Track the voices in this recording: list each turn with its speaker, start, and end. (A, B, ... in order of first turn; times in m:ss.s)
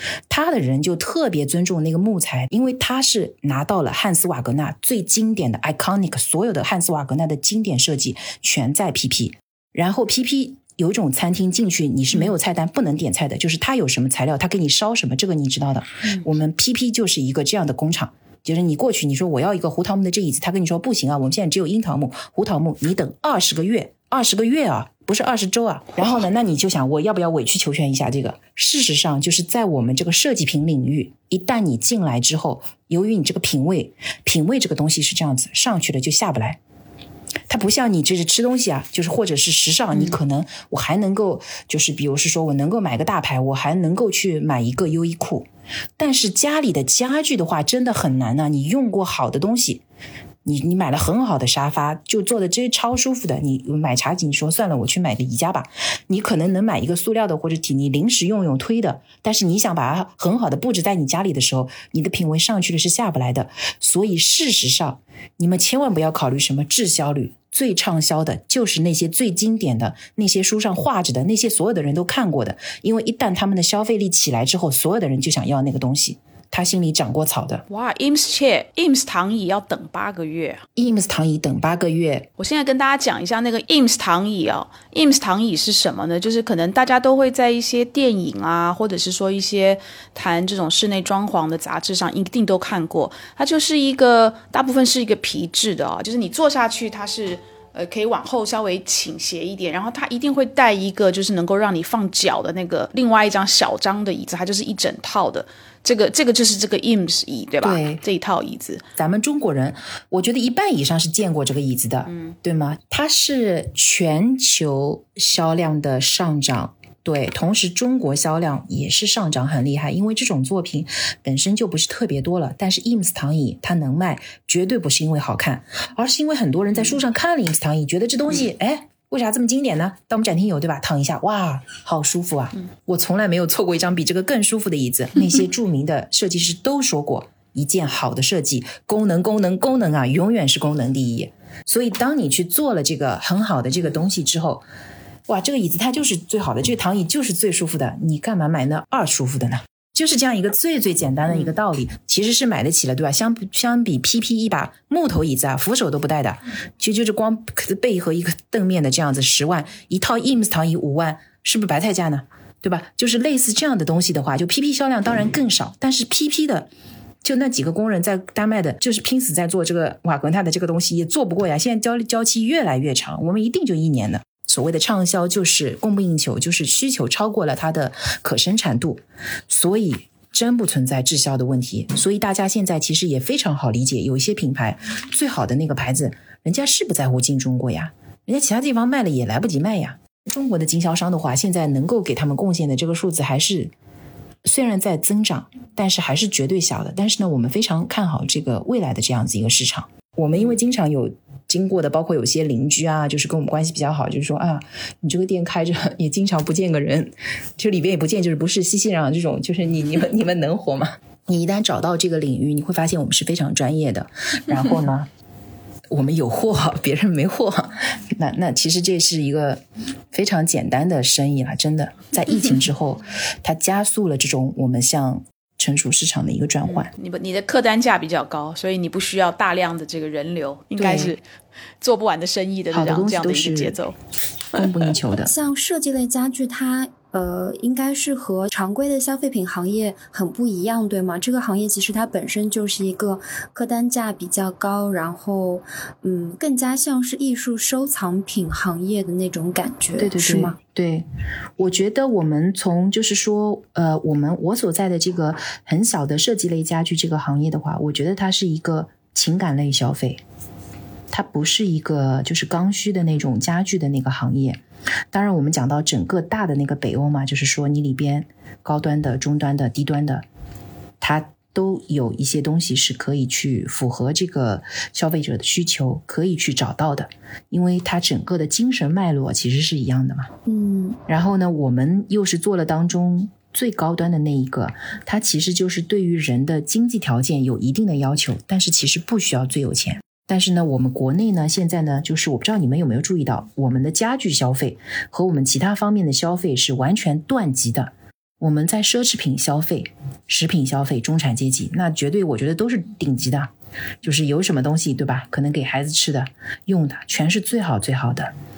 0:00.3-0:36.6 A
0:37.5-0:45.5 A
0:46.0-0:49.8 A
0:50.4-1:17.6 A
1:17.7-1:20.7 B
1:20.8-1:22.3 A
1:22.4-1:48.8 B
1:47.6-1:48.0 A
1:49.0-2:24.6 A
1:52.1-1:52.3 B
2:25.3-2:46.7 A
2:47.2-3:13.7 A
3:14.4-3:35.1 A
3:35.9-3:39.6 A
3:40.1-3:46.9 A
3:46.7-3:51.2 B
3:50.8-3:51.2 A
3:51.8-3:54.0 B
3:52.7-3:53.8 A
3:54.5-3:55.3 A
3:55.2-4:10.6 C
4:10.0-4:11.0 A
4:11.6-4:20.2 A
4:21.1-4:24.6 A
4:25.1-4:30.3 A
4:31.0-4:40.3 A
4:40.5-4:41.0 C
4:41.1-5:03.5 A
5:04.0-5:08.3 A